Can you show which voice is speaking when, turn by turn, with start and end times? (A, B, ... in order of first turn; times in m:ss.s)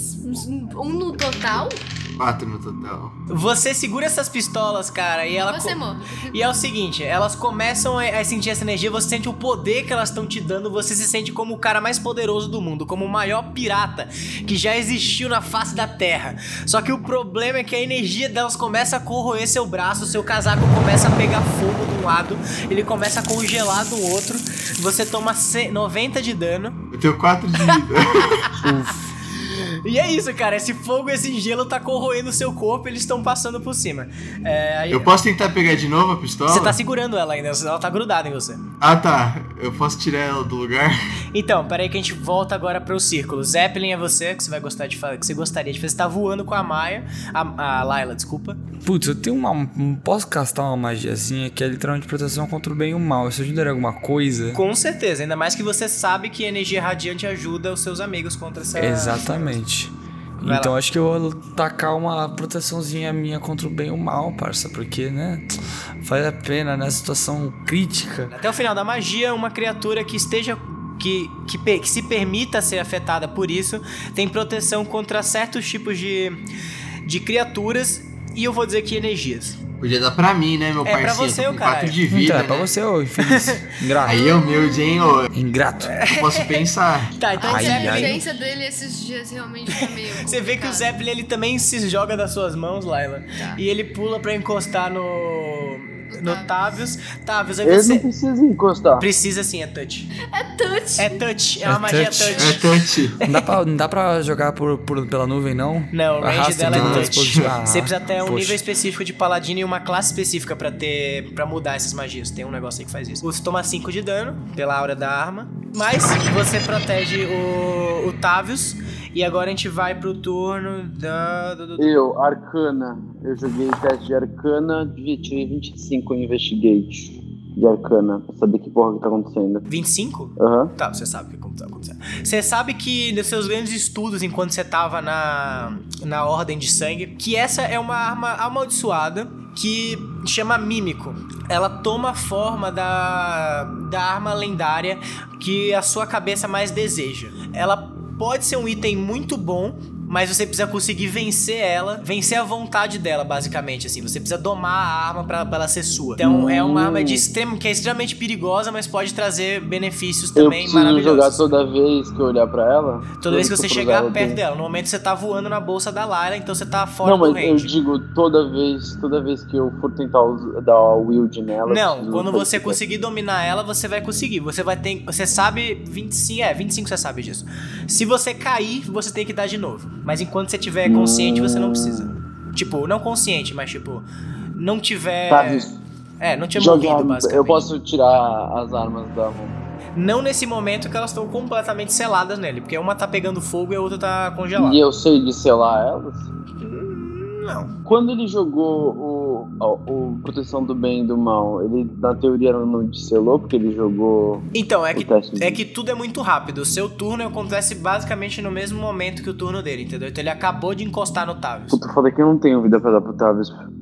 0:00.2-0:01.8 A
0:02.2-0:03.1 B
0:03.3-0:05.8 C
0:05.5-0:06.4 A
0:06.3-0:26.8 C
0:26.9-0:28.5 B
0:27.6-0:35.1 C
0:28.6-0:29.1 D
0:34.9-0:36.8 B
0:36.5-0:38.6 C
0:38.8-0:41.0 B
0:41.3-0:48.6 C
0:48.8-0:54.6 D
0:54.5-0:59.6 C
0:58.7-1:05.5 D
1:00.4-1:00.7 C
1:06.0-1:08.3 D
1:08.3-1:16.4 C
1:17.0-1:19.6 C
1:19.8-1:22.7 B
1:20.8-1:22.0 C
1:22.1-1:24.2 D
1:23.2-1:23.7 C
1:24.0-1:25.3 B
1:24.0-1:25.2 A
1:25.3-1:26.0 D
1:25.8-1:28.3 C
1:26.1-1:27.2 B
1:27.4-1:28.2 D
1:27.4-1:30.9 A
1:29.7-1:38.0 C
1:33.3-1:33.6 A
1:36.1-1:36.5 A
1:37.6-1:39.0 E
1:39.0-1:40.1 C
1:40.3-1:41.2 A
1:41.0-1:42.7 C
1:41.6-1:42.4 D
1:42.0-1:42.6 A
1:42.4-1:43.2 B
1:43.2-1:48.6 D
1:45.9-2:01.9 C
1:46.7-1:47.5 B
2:01.8-2:09.6 E
2:09.7-2:41.4 C
2:10.4-2:10.7 E
2:36.2-2:37.2 E
2:40.3-2:44.4 E
2:43.2-2:47.7 C
2:47.0-2:52.8 E
2:51.7-3:05.7 C
3:00.8-3:02.1 E
3:05.3-3:05.8 E
3:06.2-3:07.7 C
3:06.6-3:09.6 E
3:10.0-3:14.8 C
3:14.6-3:16.3 E
3:16.6-3:17.7 C
3:17.8-3:25.6 E
3:24.5-3:31.8 C
3:31.7-3:33.5 E